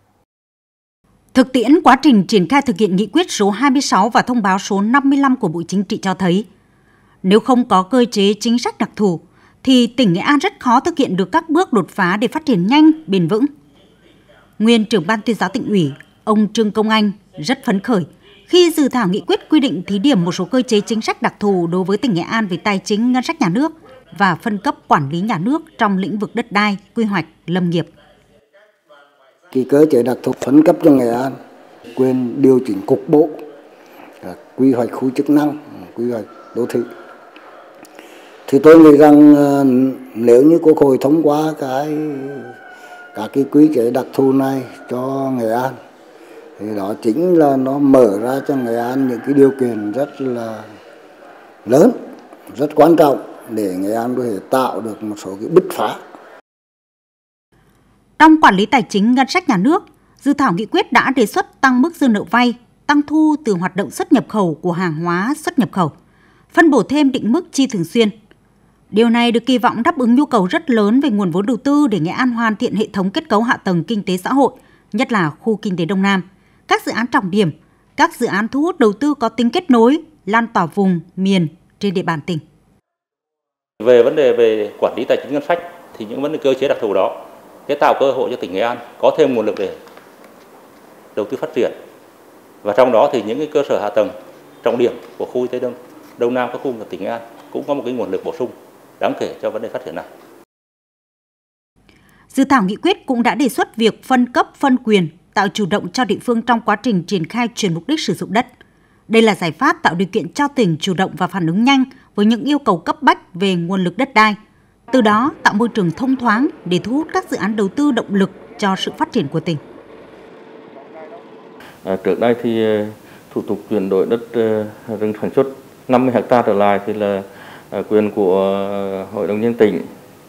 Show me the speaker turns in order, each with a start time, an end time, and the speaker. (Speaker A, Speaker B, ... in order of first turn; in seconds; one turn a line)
Speaker A: 1.3-6.5
Speaker A: 7.2-13.5
Speaker A: 14.6-27.9
Speaker B: 29.5-31.3
Speaker B: 31.9-33.4
Speaker B: 34.2-36.9
Speaker B: 38.5-42.5
Speaker B: 43.1-45.7
Speaker B: 46.6-50.6
Speaker B: 51.6-52.0
Speaker B: 52.5-56.0
Speaker A: 58.2-65.9
Speaker A: 66.5-68.1
Speaker A: 68.9-82.4
Speaker C: 83.8-87.2
Speaker C: 87.7-89.8
Speaker C: 91.2-91.7
Speaker C: 92.6-94.1
Speaker C: 94.6-100.0
Speaker A: 102.3-108.5
Speaker A: 109.1-114.4
Speaker A: 114.9-119.6
Speaker D: 121.8-129.9